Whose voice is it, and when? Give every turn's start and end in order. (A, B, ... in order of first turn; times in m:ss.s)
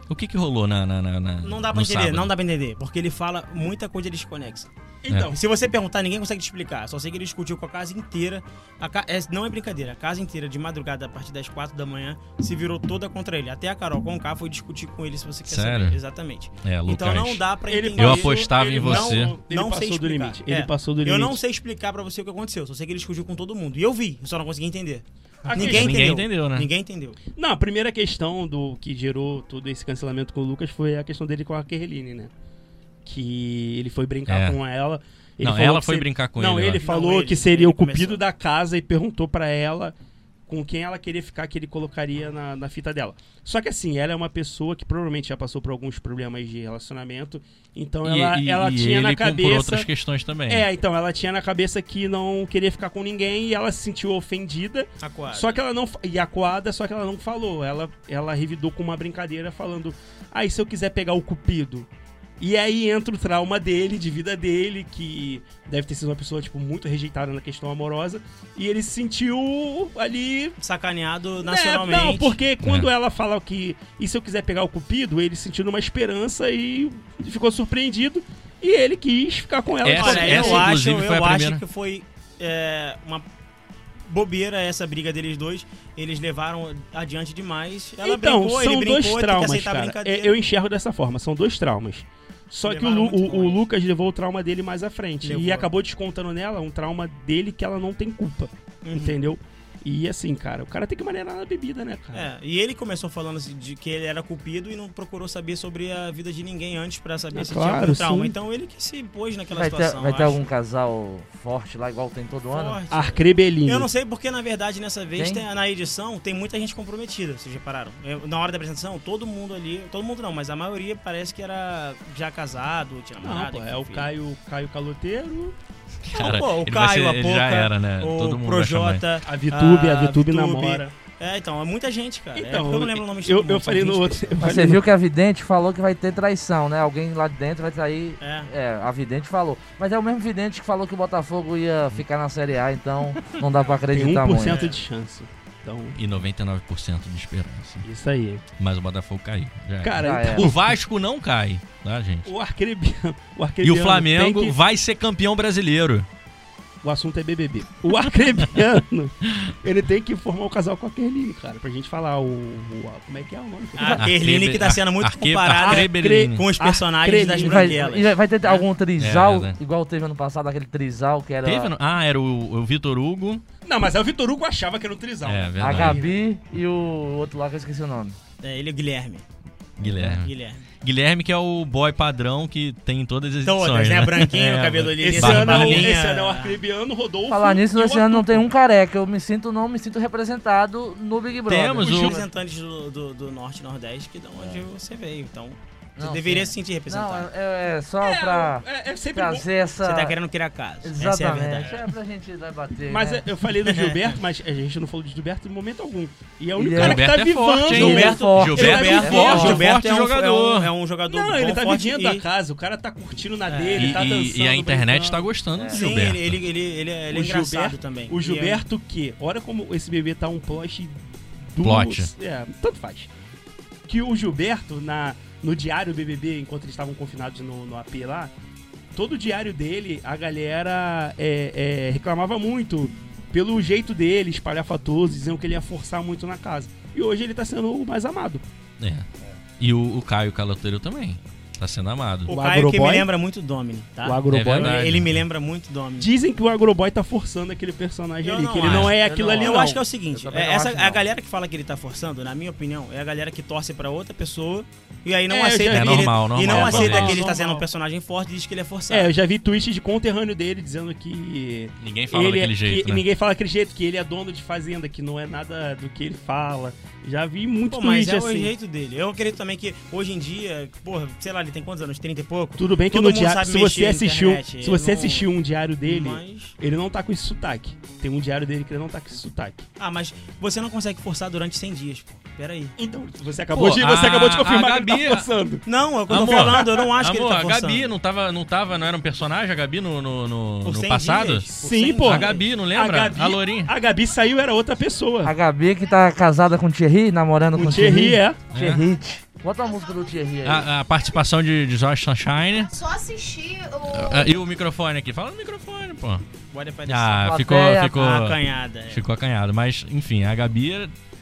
0:00.1-0:02.3 A
0:01.4-0:04.7 B
0:05.0-0:05.4 C
0:05.3-0:27.2 B
0:15.5-0:16.0 A
0:16.6-0:17.4 A
0:17.7-0:21.4 C
0:18.0-0:19.4 A
0:25.4-0:26.2 C
0:25.5-0:26.7 A
0:27.3-0:32.3 C
0:33.0-0:39.9 C
0:34.3-0:34.6 A
0:35.4-0:36.8 A
0:36.8-0:38.2 B
0:40.5-0:49.9 C
0:48.0-0:50.7 A
0:50.5-1:01.9 C
0:55.0-0:55.6 B
1:02.4-1:10.6 C
1:10.6-1:12.4 B
1:11.4-1:20.8 C
1:12.6-1:12.9 A
1:19.8-1:21.6 A
1:19.9-1:23.2 B
1:24.1-1:30.4 B
1:28.0-1:42.3 C
1:32.6-1:33.6 B
1:35.2-1:35.7 B
1:38.8-1:39.2 B
1:42.1-1:50.4 B
1:47.3-1:48.4 C
1:49.5-1:52.8 D
1:52.5-2:04.1 B
1:52.9-1:53.9 C
1:55.2-1:55.4 D
2:03.2-2:05.5 C
2:06.0-2:09.0 A
2:06.1-2:14.4 B
2:09.2-2:10.9 C
2:12.3-2:14.8 C
2:14.4-2:24.6 D
2:18.2-2:18.5 B
2:23.9-2:26.0 C
2:24.4-2:24.8 B
2:26.0-2:27.8 A
2:27.8-2:28.4 C
2:28.6-2:32.3 A
2:29.8-2:30.8 C
2:30.0-2:30.5 D
2:32.2-2:34.6 C
2:33.6-2:36.1 A
2:36.8-2:44.1 C
2:43.8-2:48.6 B
2:43.9-2:46.4 A
2:45.6-2:47.8 C
2:47.4-2:51.7 D
2:49.0-2:49.6 A
2:51.4-2:53.4 A
2:53.6-2:56.2 C
2:55.2-2:56.0 A
2:55.6-2:58.2 D
2:58.4-2:59.2 B
2:59.8-3:05.9 A
3:00.0-3:00.6 B
3:03.4-3:06.6 B
3:05.0-3:08.4 C
3:07.3-3:12.2 D
3:11.4-3:12.1 A
3:11.8-3:17.3 B
3:14.4-3:14.6 D
3:16.0-3:20.2 D
3:18.0-3:19.5 C
3:19.8-3:21.8 B
3:20.8-3:23.2 D
3:22.9-3:29.6 C
3:23.6-3:24.2 B
3:26.6-3:27.2 D
3:26.7-3:30.7 A
3:27.7-3:32.2 B
3:27.7-3:29.6 D
3:31.1-3:35.3 C
3:33.5-3:34.2 B
3:33.8-3:36.4 A
3:35.5-3:35.8 D
3:35.7-3:38.6 B
3:37.1-3:43.1 C
3:41.6-3:42.1 A
3:43.9-3:48.3 C
3:48.9-3:58.4 C
3:58.8-3:59.1 A
3:59.6-4:02.3 A
4:02.3-4:06.1 B
4:02.3-4:03.1 C
4:04.0-4:04.8 C
4:04.3-4:05.2 A
4:06.0-4:09.8 C
4:08.2-4:19.1 B
4:08.6-4:08.9 A
4:09.0-4:11.0 D
4:15.3-4:17.7 C
4:15.7-4:17.2 A
4:18.9-4:28.5 C
4:21.8-4:23.0 A
4:27.7-4:35.3 B
4:32.6-4:39.6 C
4:35.8-4:36.5 B
4:39.8-4:42.8 B
4:42.8-4:45.6 C
4:43.5-4:45.3 A
4:45.6-4:47.9 B
4:46.1-4:51.5 A
4:50.6-4:52.5 B
4:51.6-4:55.3 C
4:52.0-4:53.7 A
4:55.2-4:58.2 D
4:55.8-4:56.1 E
4:57.5-4:59.2 C
4:58.5-4:58.8 A
4:58.7-5:01.3 E
4:59.4-5:00.7 D
5:00.4-5:02.7 A
5:02.5-5:04.4 E
5:03.9-5:06.2 A
5:06.5-5:09.0 B
5:06.8-5:08.4 A
5:07.2-5:08.0 D
5:08.9-5:10.9 A